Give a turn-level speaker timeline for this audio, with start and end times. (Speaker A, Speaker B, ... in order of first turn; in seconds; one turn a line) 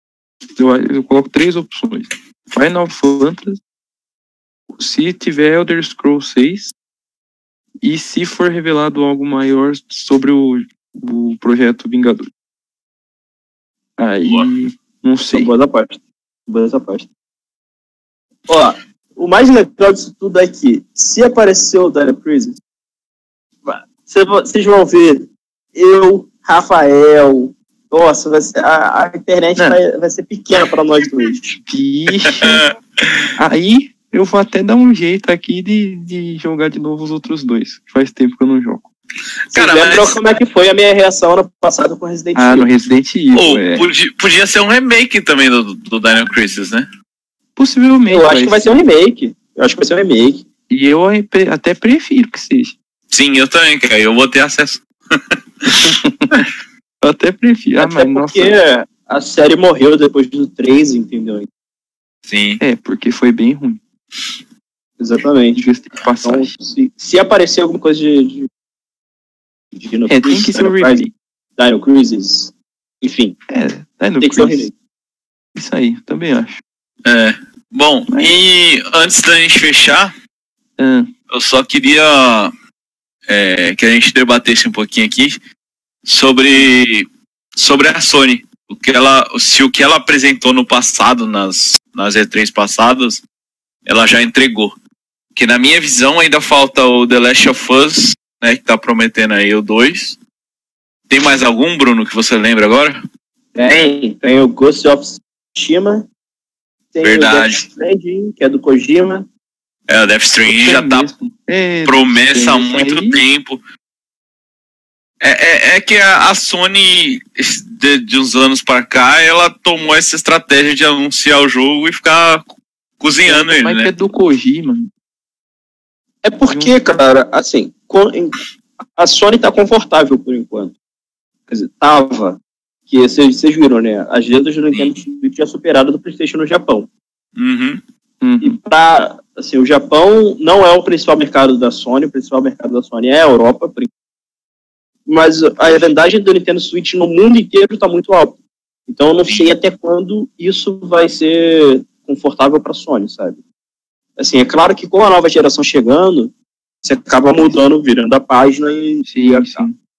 Speaker A: 0.6-3.6
Speaker A: 4.8-6.7
Speaker A: 7.8-12.3
Speaker A: 14.0-15.5
Speaker B: 15.3-17.1
Speaker B: 18.5-22.6
Speaker B: 23.6-31.6
Speaker A: 31.7-32.6
Speaker C: 32.3-33.2
Speaker A: 33.4-38.9
Speaker C: 39.5-40.2
Speaker B: 39.5-42.7
Speaker A: 42.4-43.9
Speaker C: 43.3-46.9
Speaker A: 47.6-48.7
Speaker B: 48.1-50.5
Speaker A: 50.7-52.8
Speaker C: 53.1-55.4
Speaker A: 55.7-56.5
Speaker A: 57.0-58.6
Speaker B: 57.8-61.5
Speaker C: 62.3-62.6
Speaker A: 62.6-63.8
Speaker B: 65.0-65.6
Speaker A: 65.5-66.5
Speaker B: 66.2-68.5
Speaker B: 69.8-71.0
Speaker A: 70.1-71.1
Speaker B: 71.6-73.4
Speaker A: 73.5-74.7
Speaker B: 74.2-74.7
Speaker A: 75.5-76.6
Speaker C: 77.0-80.1
Speaker A: 78.1-78.4
Speaker A: 80.8-81.1
Speaker C: 81.3-82.5
Speaker C: 83.3-85.4
Speaker C: 86.0-93.2
Speaker C: 93.9-94.8
Speaker C: 95.3-100.2
Speaker C: 101.1-103.0
Speaker B: 103.5-106.1
Speaker B: 106.9-109.3
Speaker C: 107.0-107.7
Speaker C: 109.9-111.1
Speaker A: 110.5-113.2
Speaker C: 111.8-113.6
Speaker C: 115.2-122.5
Speaker C: 123.0-123.9
Speaker A: 123.3-124.9
Speaker B: 126.2-128.4
Speaker A: 126.5-126.8
Speaker B: 129.0-130.7
Speaker B: 131.5-136.9
Speaker C: 137.4-137.8
Speaker A: 138.2-138.6
Speaker B: 138.4-143.9
Speaker B: 145.1-153.4
Speaker B: 154.2-159.7
Speaker A: 159.1-159.8